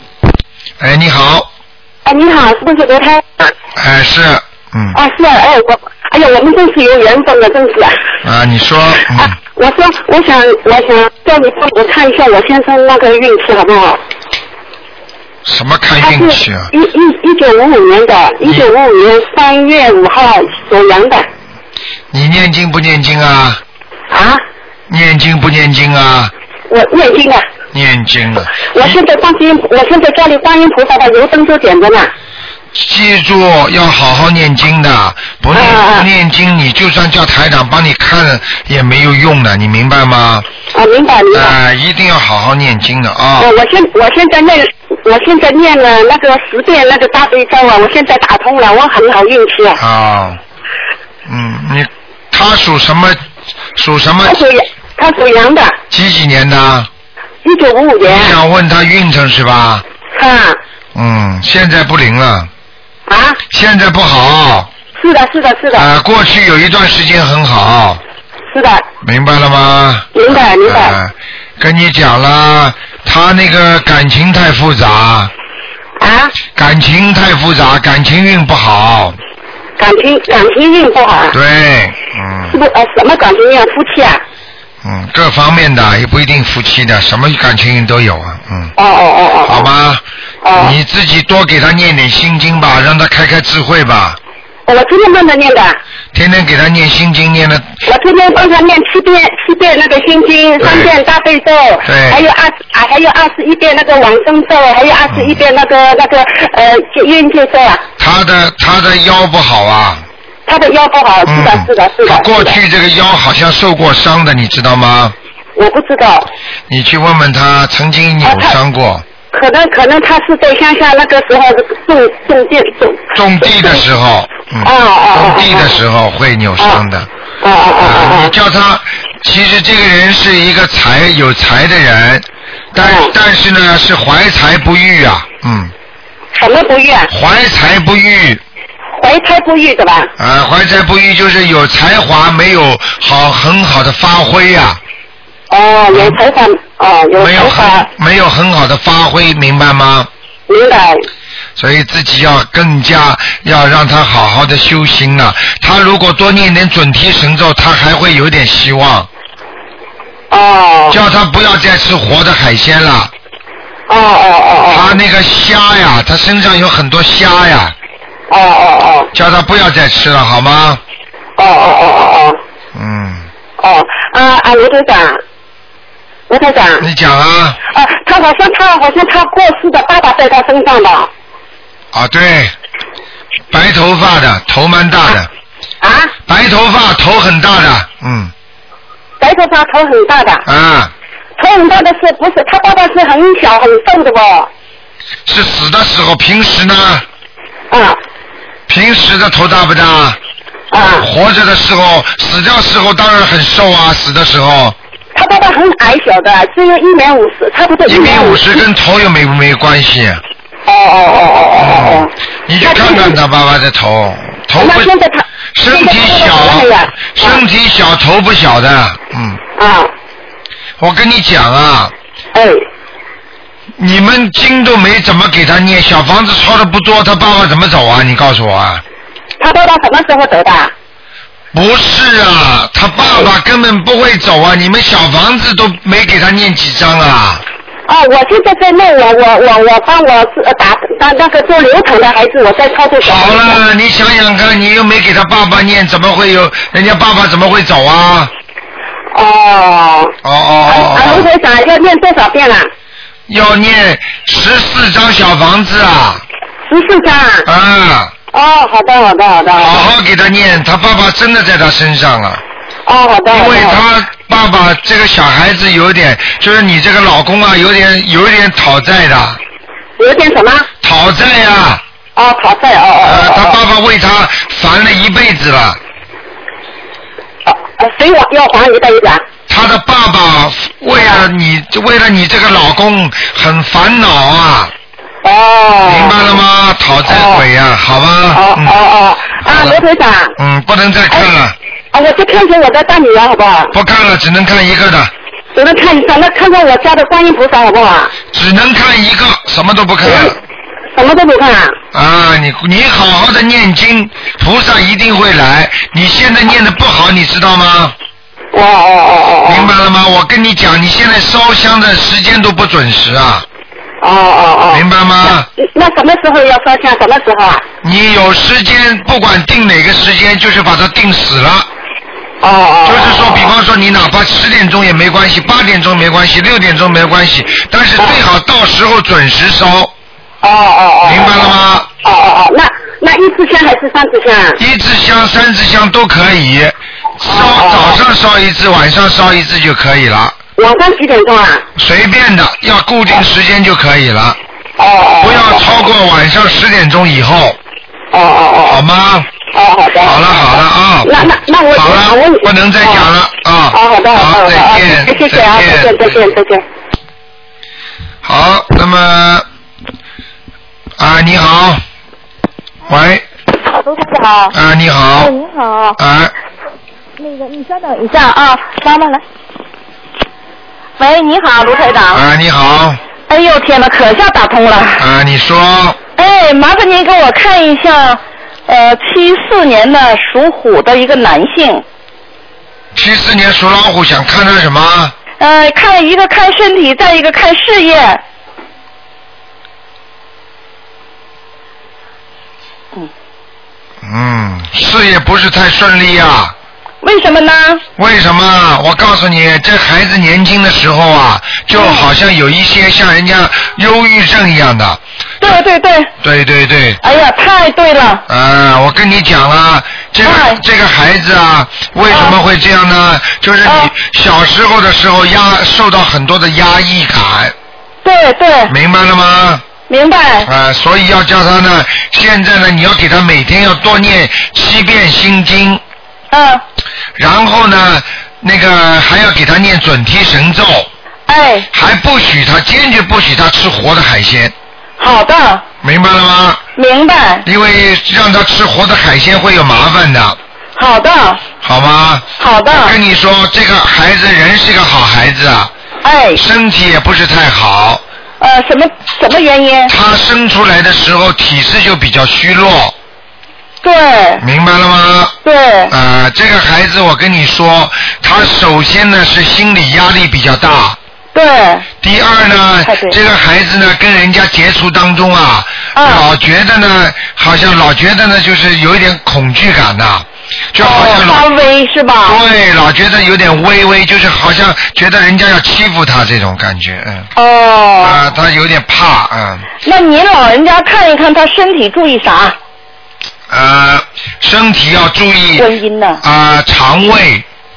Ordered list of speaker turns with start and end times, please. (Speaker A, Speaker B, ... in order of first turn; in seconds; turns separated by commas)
Speaker A: 0.8-1.5, Speaker B: 2.0-3.5, Speaker A: 3.8-5.0, Speaker B: 4.9-8.0, Speaker A: 8.2-9.3, Speaker B: 9.6-14.0, Speaker A: 15.4-16.7, Speaker B: 16.0-21.3, Speaker A: 22.1-23.6, Speaker B: 24.1-24.4, Speaker A: 24.9-26.3, Speaker B: 26.7-27.4, Speaker A: 27.7-29.0, Speaker B: 28.7-32.1, Speaker A: 32.7-40.5, Speaker B: 35.5-36.1, Speaker B: 40.7-41.5, Speaker A: 41.3-43.5, Speaker B: 43.4-49.8, Speaker A: 49.8-50.4, Speaker A: 51.3-53.2, Speaker A: 53.8-54.4, Speaker B: 54.2-55.8, Speaker A: 55.9-56.9, Speaker B: 57.4-58.3, Speaker A: 58.0-59.8, Speaker B: 60.1-60.6, Speaker A: 61.0-62.5, Speaker B: 63.1-63.4, Speaker A: 63.5-64.7, Speaker B: 65.0-65.9, Speaker A: 65.7-68.0, Speaker B: 68.5-68.9, Speaker A: 69.0-75.3, Speaker B: 70.1-71.0, Speaker B: 76.0-76.3, Speaker A: 76.5-79.2, Speaker B: 79.8-81.4, Speaker A: 81.3-82.6, Speaker B: 82.5-84.2, Speaker A: 84.8-88.7, Speaker B: 88.8-89.7, Speaker A: 89.5-90.0, Speaker B: 90.4-90.7, Speaker A: 90.5-94.2, Speaker B: 94.7-95.8, Speaker A: 96.1-97.7, Speaker B: 97.9-107.8, Speaker A: 100.6-101.0, Speaker A: 101.8-102.2, Speaker A: 105.1-105.4, Speaker A: 108.0-110.0, Speaker B: 110.5-112.5, Speaker A: 111.3-115.1, Speaker B: 115.5-116.3, Speaker A: 116.7-119.0, Speaker B: 118.2-118.5, Speaker B: 119.3-123.8, Speaker A: 123.1-127.1, Speaker B: 124.6-125.8, Speaker B: 127.4-128.3, Speaker A: 127.8-135.7, Speaker B: 132.8-133.1, Speaker B: 136.3-137.1, Speaker A: 137.1-138.4, Speaker B: 138.9-140.1, Speaker A: 140.2-144.8, Speaker B: 145.5-147.9, Speaker A: 145.9-146.2, Speaker A: 147.2-150.1, Speaker B: 150.5-151.1, Speaker A: 151.6-159.1, Speaker B: 160.3-161.0, Speaker A: 160.9-163.1, Speaker B: 163.9-164.9, Speaker A: 164.7-167.8, Speaker B: 168.3-169.1, Speaker A: 169.1-170.8, Speaker B: 171.4-172.4, Speaker A: 172.7-173.3, Speaker B: 173.6-175.2, Speaker B: 176.3-176.9, Speaker A: 176.8-177.6, Speaker B: 177.7-181.1, Speaker A: 181.9-182.5, Speaker A: 183.5-185.3, Speaker B: 185.8-186.1, Speaker A: 186.3-188.3, Speaker B: 189.2-190.4, Speaker A: 190.4-190.9, Speaker B: 191.4-194.5, Speaker A: 195.3-197.0, Speaker B: 197.7-198.0, Speaker A: 198.7-200.2, Speaker B: 200.7-201.1, Speaker A: 200.9-204.8, Speaker B: 205.1-208.6, Speaker A: 207.8-210.2, Speaker B: 210.7-213.2, Speaker A: 211.5-214.9, Speaker B: 214.6-217.4, Speaker A: 215.5-219.4, Speaker B: 219.6-219.9, Speaker A: 220.8-221.9, Speaker B: 222.3-222.6, Speaker A: 223.8-228.8, Speaker B: 229.4-230.7, Speaker A: 231.5-237.4, Speaker B: 237.9-243.6, Speaker A: 243.0-248.3, Speaker B: 249.1-250.1, Speaker A: 250.2-251.3, Speaker B: 250.7-252.7, Speaker A: 253.3-256.2, Speaker B: 256.7-257.5, Speaker A: 257.4-258.1, Speaker B: 258.3-259.8, Speaker A: 259.6-262.4, Speaker B: 262.9-263.8, Speaker A: 263.3-269.4, Speaker B: 270.0-270.7, Speaker A: 270.8-271.8, Speaker B: 272.1-273.6, Speaker A: 273.0-275.8, Speaker B: 277.4-279.2, Speaker A: 279.5-284.7, Speaker B: 280.9-281.2, Speaker B: 285.2-286.4, Speaker A: 285.8-288.8, Speaker B: 287.0-287.4, Speaker B: 288.3-290.3, Speaker A: 289.4-289.8, Speaker A: 290.4-291.5, Speaker B: 291.9-293.7, Speaker A: 293.7-295.1, Speaker B: 295.5-298.1, Speaker A: 298.3-300.4, Speaker B: 300.0-300.3, Speaker B: 300.9-301.8, Speaker A: 301.9-307.9, Speaker B: 308.5-309.7, Speaker A: 309.4-313.4, Speaker B: 314.0-317.6, Speaker A: 314.7-315.5, Speaker A: 317.8-321.7, Speaker B: 322.4-323.5, Speaker A: 322.8-329.9, Speaker B: 330.4-334.6, Speaker A: 331.0-331.9, Speaker A: 334.6-340.4, Speaker B: 337.3-338.0, Speaker B: 340.6-341.6, Speaker A: 341.8-344.4, Speaker B: 344.8-345.6, Speaker A: 345.2-347.6, Speaker B: 348.1-348.8, Speaker A: 348.7-349.3, Speaker B: 349.5-353.1, Speaker A: 350.0-356.1, Speaker B: 353.7-356.6, Speaker A: 358.2-359.4, Speaker A: 361.0-361.8, Speaker A: 362.9-363.2, Speaker C: 363.8-364.5, Speaker A: 364.5-365.3, Speaker C: 365.2-365.9, Speaker A: 366.0-366.3, Speaker C: 367.2-369.2, Speaker C: 371.0-372.2, Speaker A: 372.1-373.0, Speaker C: 373.3-375.0, Speaker A: 375.0-376.0, Speaker C: 376.2-381.8, Speaker A: 382.9-385.1, Speaker C: 385.4-388.2, Speaker A: 394.0-396.5, Speaker C: 397.0-397.8, Speaker A: 398.0-405.6, Speaker C: 401.8-402.1, Speaker C: 405.4-406.1, Speaker A: 406.2-407.0, Speaker C: 407.0-408.2, Speaker A: 408.3-417.5, Speaker C: 410.2-410.6, Speaker C: 412.1-412.4, Speaker C: 413.6-413.9, Speaker C: 418.0-418.7, Speaker A: 418.7-419.6, Speaker C: 419.9-420.5, Speaker A: 420.4-425.8, Speaker C: 426.3-426.6, Speaker A: 427.1-430.9, Speaker C: 431.3-431.7, Speaker A: 431.7-434.5, Speaker C: 435.0-435.6, Speaker A: 435.8-436.6, Speaker C: 436.8-437.4, Speaker A: 437.4-440.4, Speaker C: 440.8-441.4, Speaker A: 441.6-445.7, Speaker C: 442.4-442.9, Speaker C: 446.0-446.4, Speaker A: 446.4-448.0, Speaker C: 448.4-449.9, Speaker A: 449.9-452.9, Speaker C: 453.8-454.4, Speaker A: 454.4-455.4, Speaker C: 455.4-455.9, Speaker A: 455.9-461.0, Speaker C: 461.3-461.9, Speaker A: 462.0-471.4, Speaker C: 462.9-463.2, Speaker C: 465.9-466.2, Speaker C: 470.8-472.4, Speaker A: 472.2-477.3, Speaker C: 477.4-478.2, Speaker A: 478.0-479.7, Speaker C: 479.8-482.6, Speaker A: 483.5-485.7, Speaker C: 485.6-486.2, Speaker A: 486.2-487.4